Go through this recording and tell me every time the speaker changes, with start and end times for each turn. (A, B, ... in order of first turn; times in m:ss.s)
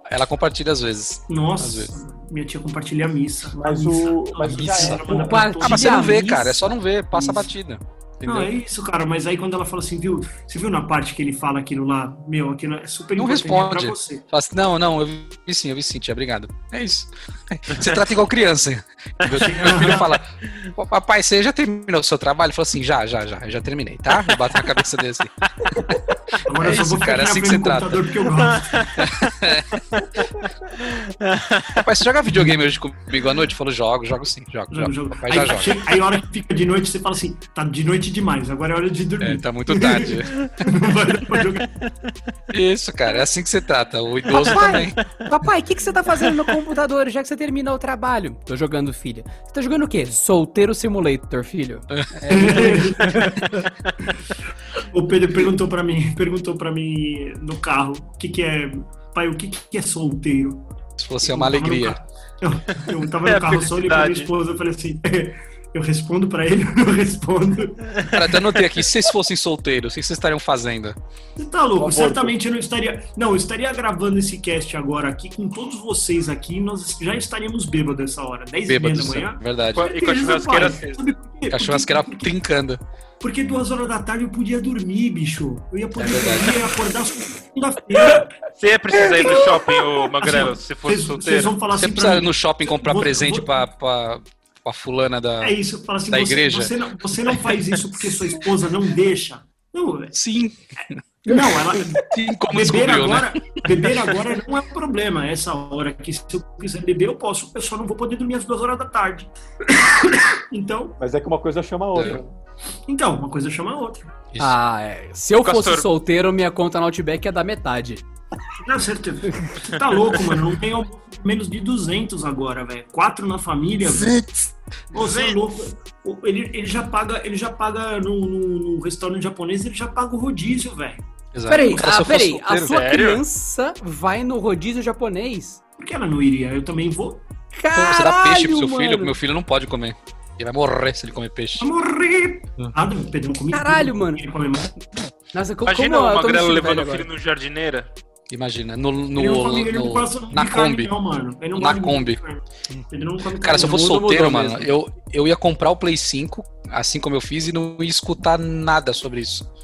0:00.1-0:01.9 A
0:01.3-0:06.1 B
0:03.5-0:05.6 C
0:04.6-0:05.0 A
0:05.1-0:06.7 D
0:05.6-0:08.5 A
0:08.2-0:14.2 B
0:13.2-0:25.3 A
0:19.3-0:20.2 B
0:26.4-0:28.9 B
0:26.6-0:28.1 A
0:28.5-0:30.1 E
0:29.0-0:29.8 A
0:30.7-0:31.9 E
0:31.8-0:35.8 A
0:34.7-0:41.9 B
0:39.2-0:40.4 A
0:42.5-0:45.0 A
0:44.3-0:53.7 D
0:52.3-0:53.5 B
0:54.8-1:00.6 B
1:01.0-1:02.0 A
1:01.2-1:08.0 B
1:03.2-1:04.3 E
1:08.0-1:08.4 E
1:08.1-1:11.0 A
1:11.4-1:22.3 B
1:11.8-1:12.3 C
1:18.6-1:19.9 A
1:19.8-1:21.0 E
1:21.5-1:22.8 A
1:23.2-1:28.4 B
1:26.0-1:26.7 A
1:28.6-1:31.6 E
1:29.0-1:33.6 B
1:31.7-1:35.6 A
1:35.4-1:40.2 B
1:36.1-1:36.7 A
1:40.1-1:44.2 A
1:41.3-1:51.0 B
1:51.0-1:52.3 C
1:52.0-1:52.2 A
1:52.9-1:54.1 B
1:54.4-1:58.0 D
1:55.4-1:55.9 E
1:58.6-2:04.2 B
2:03.9-2:04.5 A
2:04.9-2:11.0 B
2:05.0-2:05.4 E
2:11.3-2:12.8 A
2:11.5-2:15.6 D
2:12.6-2:13.2 E
2:15.8-2:17.2 B
2:17.5-2:19.2 D
2:17.8-2:21.7 A
2:21.6-2:24.8 B
2:23.5-2:24.2 D
2:25.3-2:27.1 D
2:25.7-2:27.9 E
2:28.3-2:30.9 A
2:29.2-2:34.1 B
2:31.6-2:32.2 A
2:33.4-2:39.5 A
2:33.6-2:34.7 D